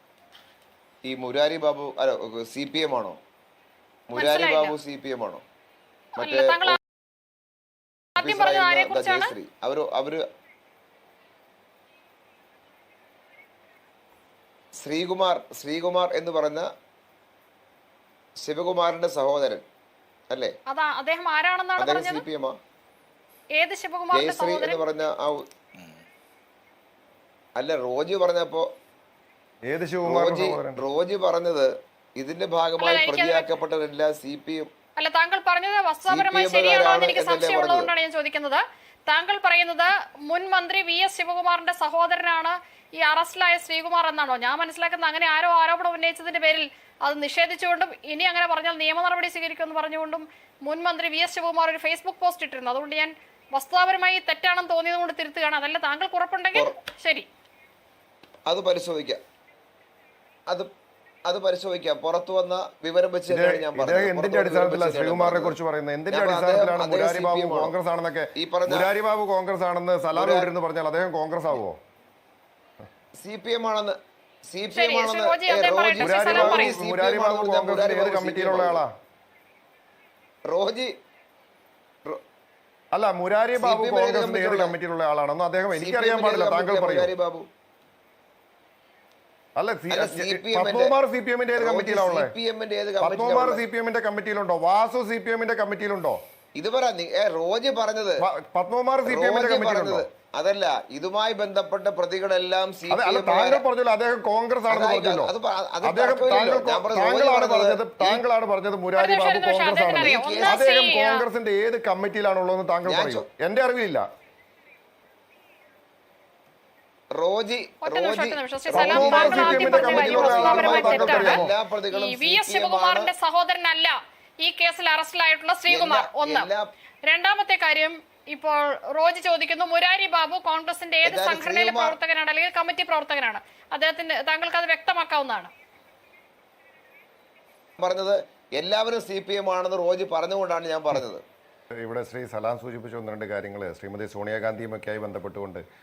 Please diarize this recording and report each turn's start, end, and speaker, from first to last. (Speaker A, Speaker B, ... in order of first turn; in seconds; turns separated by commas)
Speaker A: 1.0-3.2, Speaker A: 4.1-5.4, Speaker B: 4.2-4.8, Speaker A: 6.2-6.8, Speaker B: 6.2-6.8, Speaker B: 8.2-9.3, Speaker A: 8.2-10.2, Speaker A: 14.8-16.7, Speaker A: 18.4-19.6, Speaker B: 20.7-22.2, Speaker A: 21.8-22.6, Speaker B: 23.6-24.8, Speaker A: 24.1-25.5, Speaker A: 27.6-28.7, Speaker C: 29.7-30.8, Speaker A: 30.1-34.7, Speaker B: 32.8-33.5, Speaker B: 35.0-57.3, Speaker A: 36.1-37.9, Speaker A: 58.5-59.2, Speaker A: 61.3-65.6, Speaker C: 63.3-71.8, Speaker A: 66.1-67.7, Speaker A: 68.4-68.9, Speaker A: 70.2-70.5, Speaker A: 73.2-74.0, Speaker A: 74.5-78.8, Speaker B: 74.8-76.8, Speaker C: 76.0-78.9, Speaker A: 80.5-80.9, Speaker C: 82.9-87.1, Speaker A: 83.6-84.8, Speaker A: 85.7-87.5, Speaker C: 89.6-92.3, Speaker A: 89.9-91.0, Speaker A: 91.6-93.6, Speaker C: 93.0-96.2, Speaker A: 96.6-98.2, Speaker C: 98.2-100.0, Speaker A: 99.0-103.6, Speaker C: 102.9-105.3, Speaker A: 104.7-108.2, Speaker C: 105.8-114.0, Speaker B: 109.0-111.2, Speaker A: 110.0-110.6, Speaker A: 112.8-113.3, Speaker A: 117.2-123.1, Speaker B: 117.8-126.5, Speaker C: 118.7-121.5, Speaker A: 125.7-126.7, Speaker B: 127.1-135.5, Speaker A: 131.1-132.0, Speaker A: 137.8-141.2, Speaker C: 141.8-145.6